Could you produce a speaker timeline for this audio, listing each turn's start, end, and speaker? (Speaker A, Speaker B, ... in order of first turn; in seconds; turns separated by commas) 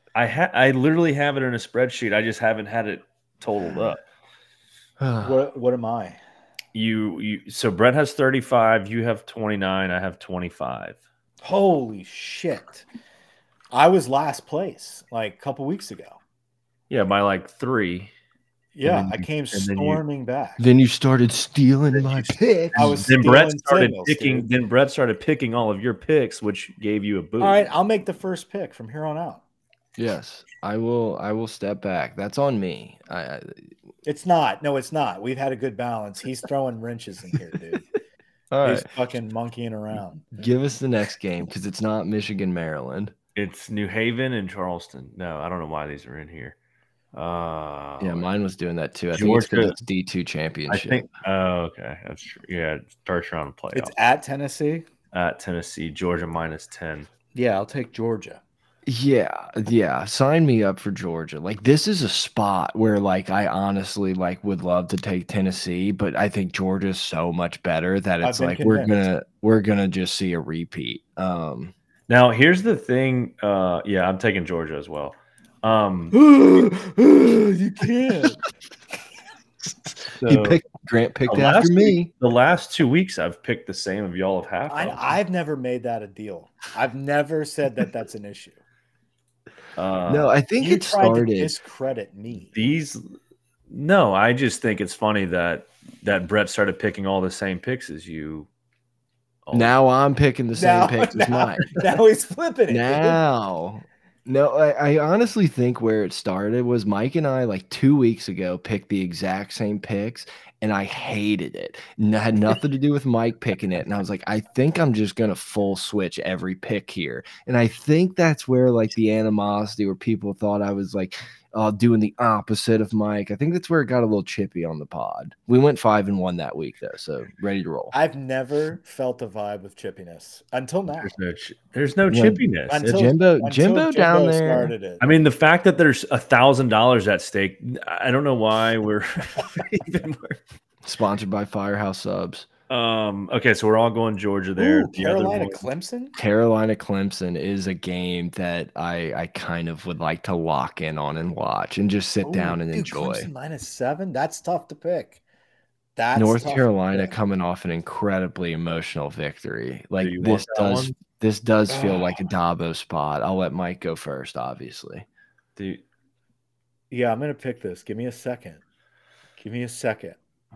Speaker A: 0.1-4.0, Speaker B: 5.0-5.4, Speaker C: 5.2-6.2, Speaker A: 6.7-11.0, Speaker C: 11.4-12.8, Speaker C: 13.7-16.2, Speaker A: 16.9-18.1, Speaker C: 18.7-20.6, Speaker A: 18.8-20.0, Speaker B: 20.6-23.1, Speaker C: 22.7-24.5, Speaker A: 22.7-27.7, Speaker C: 27.4-29.4, Speaker B: 30.0-33.7, Speaker C: 34.0-37.9, Speaker B: 38.5-38.9, Speaker C: 38.6-40.4, Speaker B: 40.4-43.1, Speaker A: 43.4-46.5, Speaker A: 47.1-48.3, Speaker B: 48.0-51.1, Speaker A: 49.1-49.8, Speaker A: 50.7-53.9, Speaker C: 53.7-54.9, Speaker A: 55.1-57.1, Speaker C: 57.3-58.4, Speaker B: 58.9-71.7, Speaker C: 68.2-69.0, Speaker A: 72.1-76.2, Speaker C: 76.1-78.4, Speaker A: 80.2-80.6, Speaker B: 80.2-82.1, Speaker A: 81.3-85.0, Speaker C: 84.7-88.6, Speaker A: 89.8-90.3, Speaker B: 90.1-91.5, Speaker C: 90.6-92.5, Speaker A: 92.5-93.0, Speaker A: 93.7-98.5, Speaker A: 99.5-99.8, Speaker B: 99.5-101.7, Speaker C: 100.6-103.2, Speaker B: 102.7-127.9, Speaker C: 127.9-131.1, Speaker A: 131.0-133.0, Speaker B: 132.1-134.7, Speaker C: 132.7-135.1, Speaker A: 135.0-140.4, Speaker B: 140.8-142.4, Speaker A: 142.7-145.6, Speaker C: 144.6-146.1, Speaker B: 146.1-153.3, Speaker C: 152.2-155.2, Speaker C: 155.9-157.1, Speaker B: 156.1-165.1, Speaker A: 160.0-160.9, Speaker C: 161.7-162.2, Speaker A: 165.6-165.8, Speaker C: 166.9-168.6, Speaker C: 169.4-170.2